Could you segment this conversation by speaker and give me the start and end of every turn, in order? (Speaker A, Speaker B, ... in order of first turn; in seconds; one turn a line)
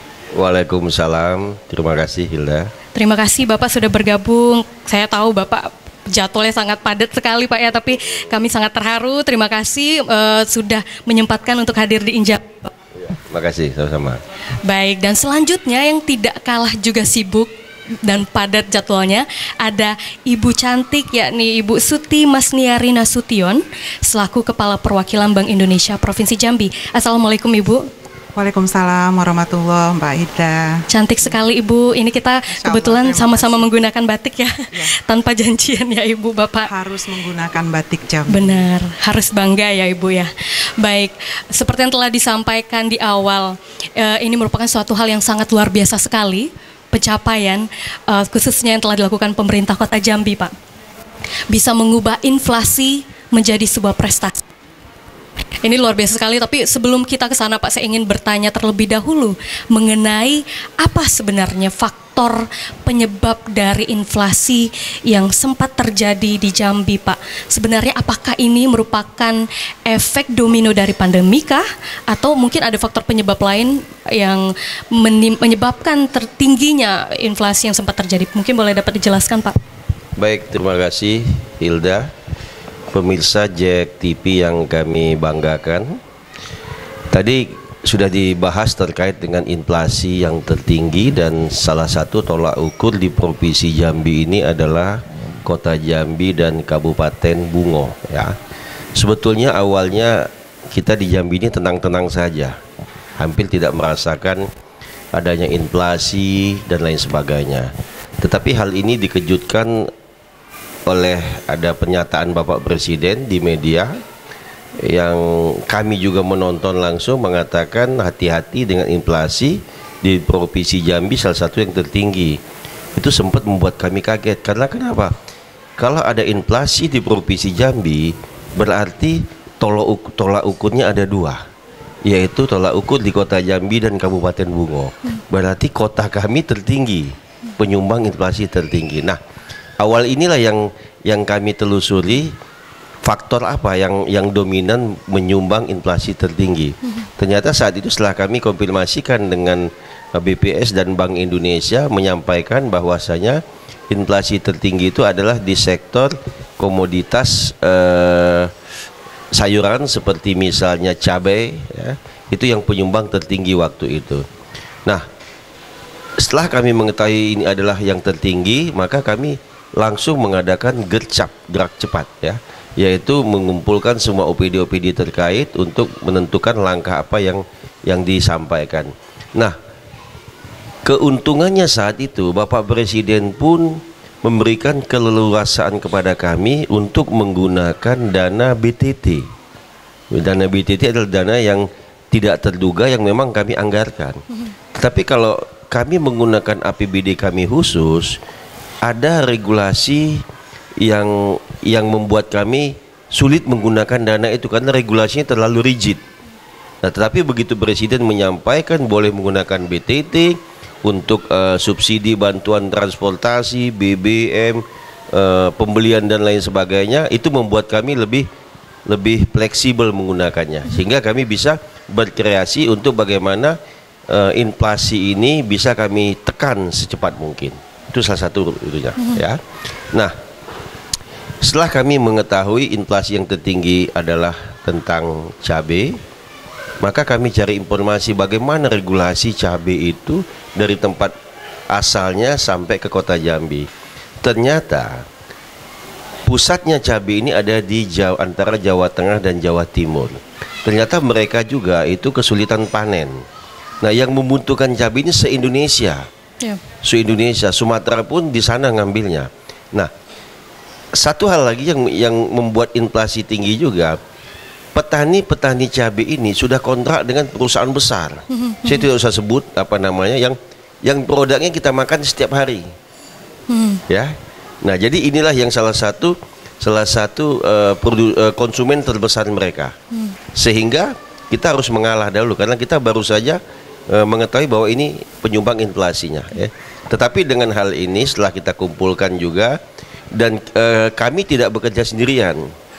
Speaker A: 0.3-2.7
Speaker B: 2.9-12.7
Speaker A: 13.3-14.2
Speaker B: 14.6-17.5
Speaker B: 18.0-27.9
Speaker C: 28.3-30.8
Speaker B: 30.9-36.7
Speaker C: 32.5-33.7
Speaker C: 36.7-38.6
Speaker B: 38.3-50.5
Speaker B: 51.5-54.5
Speaker B: 55.6-79.6
Speaker A: 80.2-82.1
Speaker A: 82.9-86.0
Speaker A: 87.1-98.3
Speaker A: 99.0-102.6
Speaker A: 103.2-104.5
Speaker A: 105.1-109.9
Speaker A: 110.9-114.0
Speaker A: 114.8-122.4
Speaker A: 123.0-125.1
Speaker A: 125.8-131.4
Speaker A: 132.0-139.2
Speaker A: 139.8-142.3
Speaker A: 143.0-158.5
Speaker A: 159.3-164.2
Speaker A: 166.2-179.6
Speaker A: 180.8-189.3
Speaker A: 190.1-194.2
Speaker A: 194.7-198.2
Speaker A: 198.8-200.2
Speaker A: 200.8-206.0
Speaker A: 206.8-218.3
Speaker A: 218.9-223.6
Speaker A: 224.1-229.4
Speaker A: 231.4-236.0
Speaker A: 236.8-241.1
Speaker A: 241.7-243.7
Speaker A: 244.2-245.0
Speaker A: 246.2-253.2
Speaker A: 253.8-256.1
Speaker A: 256.8-259.9
Speaker A: 260.9-264.0
Speaker A: 264.8-272.7
Speaker B: 268.3-268.9
Speaker B: 273.5-273.8
Speaker A: 273.9-279.8
Speaker A: 280.3-289.6
Speaker A: 290.1-292.5